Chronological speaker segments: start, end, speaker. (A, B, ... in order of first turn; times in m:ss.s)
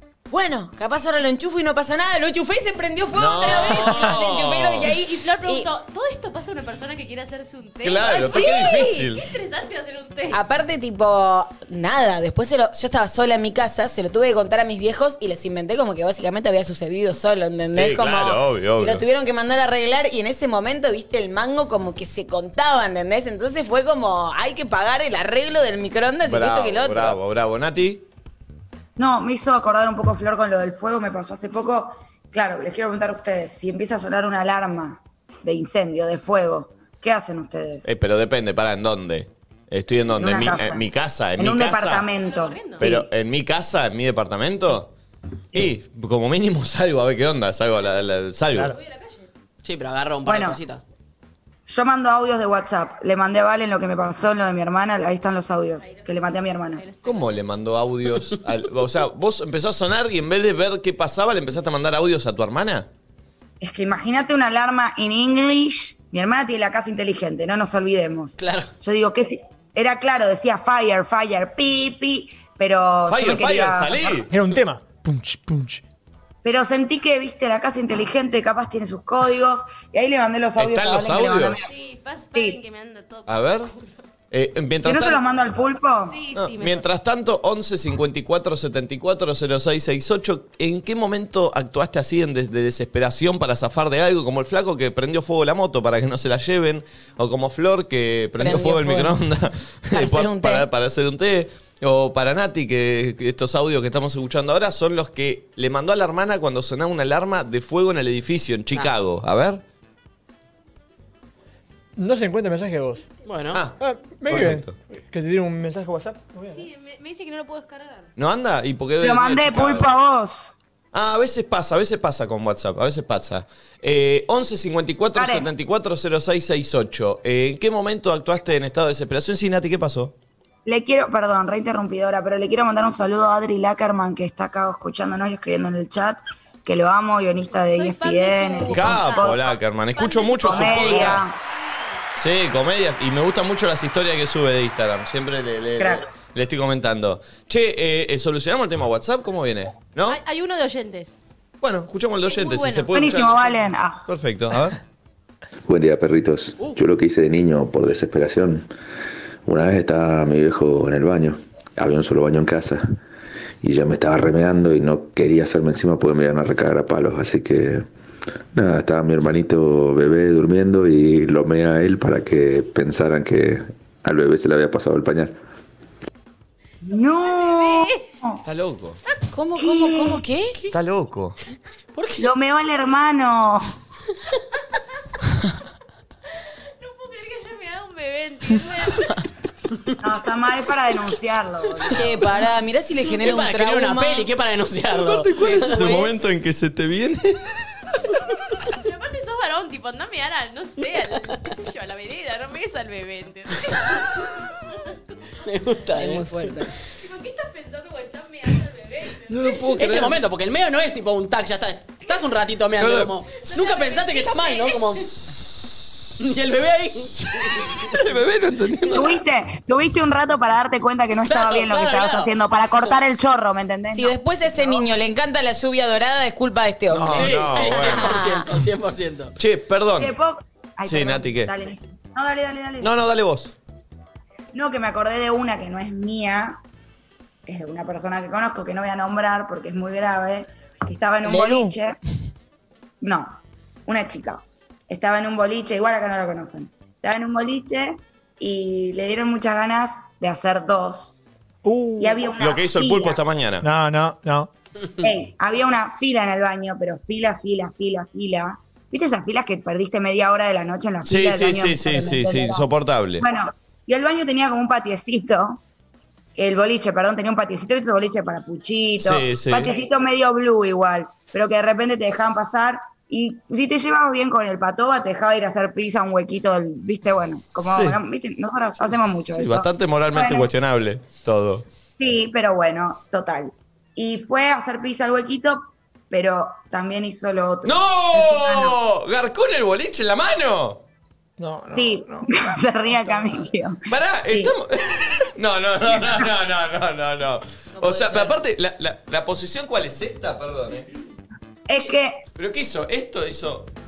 0:00.3-0:05.7 A
0:03.1-0:04.9 B
0:03.4-0:04.2 C
0:04.8-0:10.4 C
0:07.8-0:09.3 B
0:08.2-0:09.1 A
0:10.3-0:27.2 A
0:17.7-0:19.0 B
0:26.2-0:28.0 B
0:29.0-0:37.9 D
0:37.8-0:42.1 B
0:40.2-0:40.9 D
0:41.4-0:43.1 D
0:42.2-0:42.8 C
0:42.8-0:44.9 B
0:45.5-0:48.8 B
0:48.7-0:49.3 C
0:49.6-0:50.8 E
0:50.2-0:50.6 D
0:51.7-0:56.8 D
0:55.8-0:56.1 C
0:56.8-0:57.5 C
0:57.0-1:02.9 B
1:03.6-1:14.2 D
1:08.4-1:08.7 E
1:13.1-1:14.3 B
1:14.3-1:15.8 F
1:16.4-1:21.7 D
1:20.6-1:21.7 B
1:21.6-1:23.8 C
1:22.3-1:22.6 D
1:23.3-1:23.7 B
1:24.3-1:25.2 B
1:24.8-1:26.2 D
1:26.0-1:26.8 C
1:26.3-1:49.6 B
1:38.4-1:39.2 A
1:39.9-1:40.7 A
1:52.0-1:53.0 F
1:53.2-1:53.6 E
1:53.8-1:56.6 F
1:54.2-1:54.7 B
1:56.5-1:58.1 C
1:58.2-1:59.9 B
1:59.0-2:00.5 D
2:00.9-2:10.1 B
2:05.2-2:05.5 D
2:10.6-2:19.4 D
2:17.7-2:22.0 C
2:18.6-2:21.2 B
2:20.4-2:21.3 D
2:22.2-2:30.2 B
2:25.8-2:26.1 D
2:30.1-2:31.2 C
2:31.6-2:33.5 B
2:32.2-2:33.6 C
2:32.9-2:34.0 D
2:34.1-2:34.8 B
2:35.6-2:38.6 G
2:39.4-2:43.0 G
2:43.6-2:47.8 G
2:48.5-2:55.3 G
2:56.8-2:58.4 D
2:57.2-2:58.1 C
2:58.4-2:59.0 B
2:59.3-3:00.5 A
2:59.6-3:00.2 D
3:00.7-3:01.4 B
3:01.9-3:02.3 E
3:02.2-3:03.7 D
3:06.8-3:09.2 C
3:10.0-3:12.2 D
3:11.8-3:12.1 E
3:11.9-3:14.3 A
3:13.1-3:16.2 E
3:14.9-3:17.9 B
3:18.7-3:24.3 C
3:25.4-3:26.6 E
3:26.0-3:26.7 A
3:27.0-3:29.8 C
3:29.3-3:30.2 B
3:29.7-3:35.2 E
3:32.8-3:33.1 B
3:33.4-3:34.9 C
3:35.2-3:35.8 B
3:36.2-3:38.0 E
3:37.4-3:39.2 B
3:38.9-3:44.8 D
3:41.2-3:43.0 E
3:43.9-3:48.4 A
3:46.9-3:48.3 B
3:47.1-3:49.4 E
3:49.4-3:50.1 B
3:50.0-3:52.9 D
3:50.8-3:51.5 B
3:52.8-3:53.5 B
3:54.5-3:56.6 D
3:57.5-4:02.0 D
4:01.2-4:01.7 A
4:03.0-4:11.2 D
4:11.6-4:12.3 F
4:12.0-4:13.2 D
4:12.4-4:13.7 B
4:13.6-4:14.5 F
4:15.0-4:22.6 D
4:21.0-4:23.2 B
4:23.2-4:25.6 D
4:26.4-4:40.5 D
4:29.0-4:29.7 B
4:37.6-4:38.0 B
4:39.3-4:41.6 B
4:42.0-4:48.8 D
4:47.6-4:50.8 B
4:51.4-4:52.3 F
4:51.7-4:54.5 D
4:53.0-4:53.4 F
4:53.9-5:00.9 B
4:57.8-4:58.3 C
5:01.7-5:02.2 D
5:02.4-5:03.7 B